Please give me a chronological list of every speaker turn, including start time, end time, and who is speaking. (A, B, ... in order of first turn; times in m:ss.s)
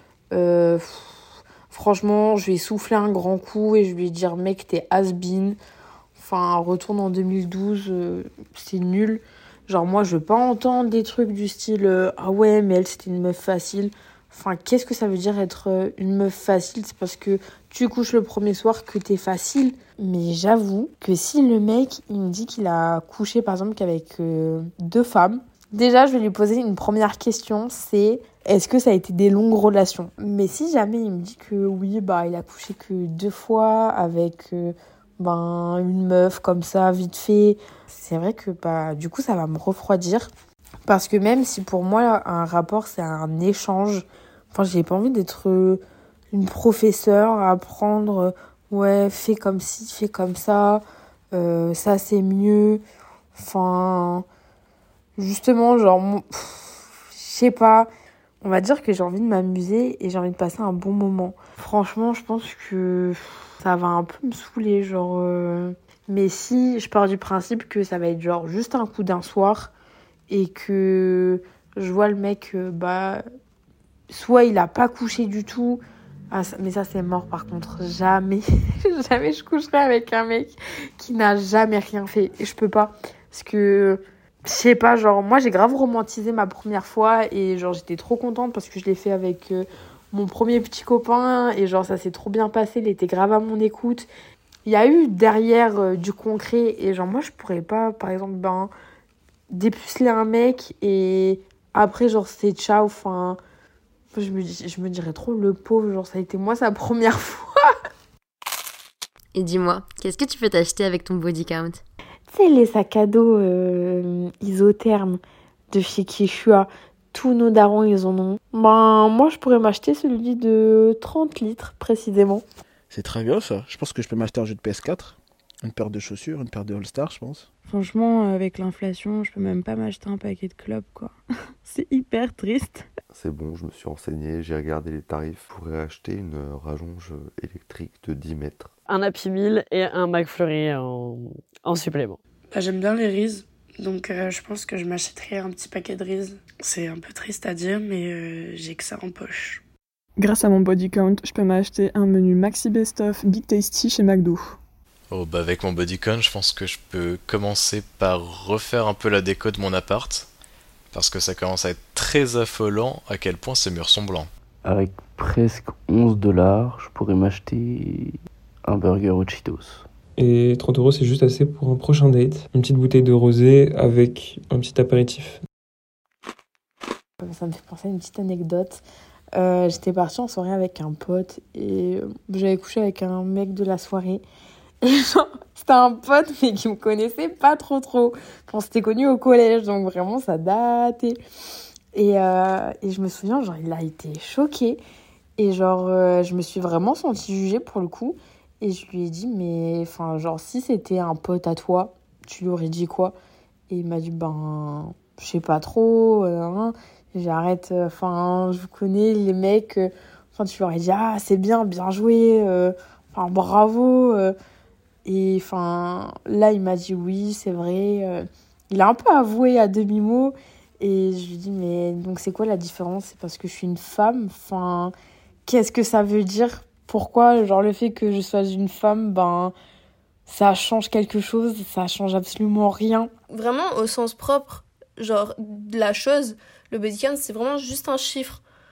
0:00.3-0:05.6 A
0:06.2-0:40.3 A
0:40.9-0:45.8 A
0:46.3-0:52.8 A
0:53.3-0:54.2 A
0:55.2-0:57.9 A
0:58.4-1:09.7 A
1:10.3-1:13.2 A
1:14.1-1:34.1 A
1:34.6-1:38.7 A
1:39.5-1:43.4 A
1:44.1-1:47.7 A
1:49.3-1:51.8 B
1:52.3-2:02.4 A
2:02.9-2:07.5 C
2:07.6-2:12.9 D
2:13.1-2:18.7 E
2:18.9-2:22.2 F
2:22.5-2:29.6 G
2:30.2-2:34.6 H
2:35.1-2:40.3 I
2:40.9-2:44.3 I
2:44.6-2:49.8 J
2:50.2-2:55.4 K
2:57.2-2:58.8 A
2:59.3-3:04.2 A
3:04.8-3:11.2 A
3:11.9-3:14.8 A
3:15.4-3:23.2 A
3:23.7-3:34.3 A
3:35.0-3:44.9 A
3:45.5-3:49.5 A
3:50.3-3:53.1 A
3:53.3-3:58.4 L